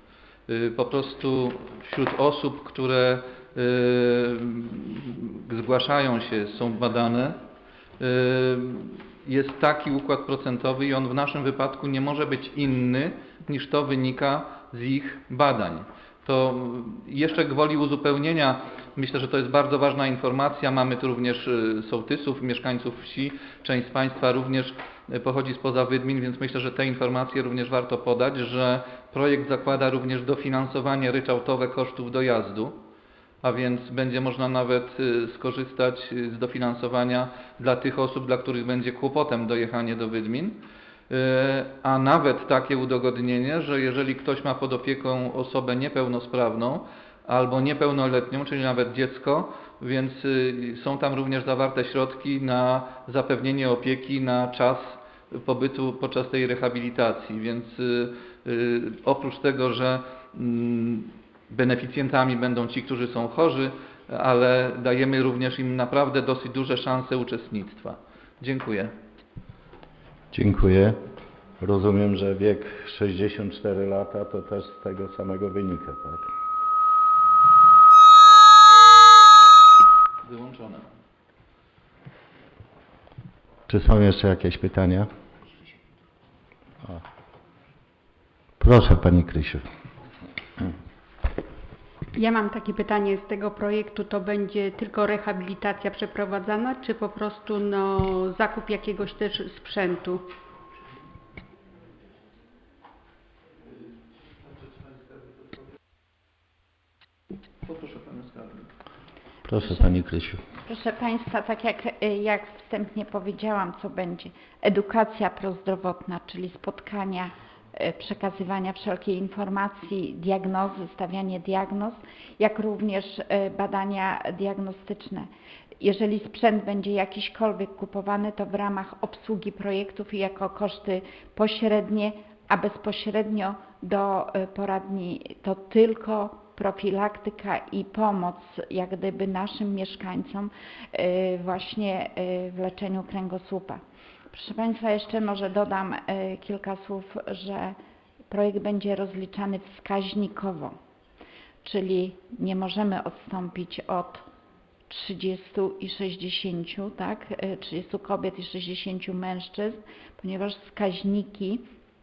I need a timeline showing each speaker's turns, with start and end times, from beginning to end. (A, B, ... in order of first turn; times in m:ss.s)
0:00.5-0:07.4 A
0:08.0-0:32.8 A
0:33.4-1:08.9 A
1:10.3-1:11.0 B
1:11.6-1:16.3 B
1:20.2-1:20.9 A
1:23.7-1:25.1 B
1:28.6-1:29.6 B
1:32.2-1:40.2 C
1:47.6-1:48.7 A
1:49.4-1:50.4 B
1:49.6-1:49.9 D
1:50.6-2:05.3 D
2:05.8-2:23.8 D
2:24.3-2:27.8 D
2:28.3-2:30.8 D
2:31.6-2:34.3 D
2:34.9-2:41.6 D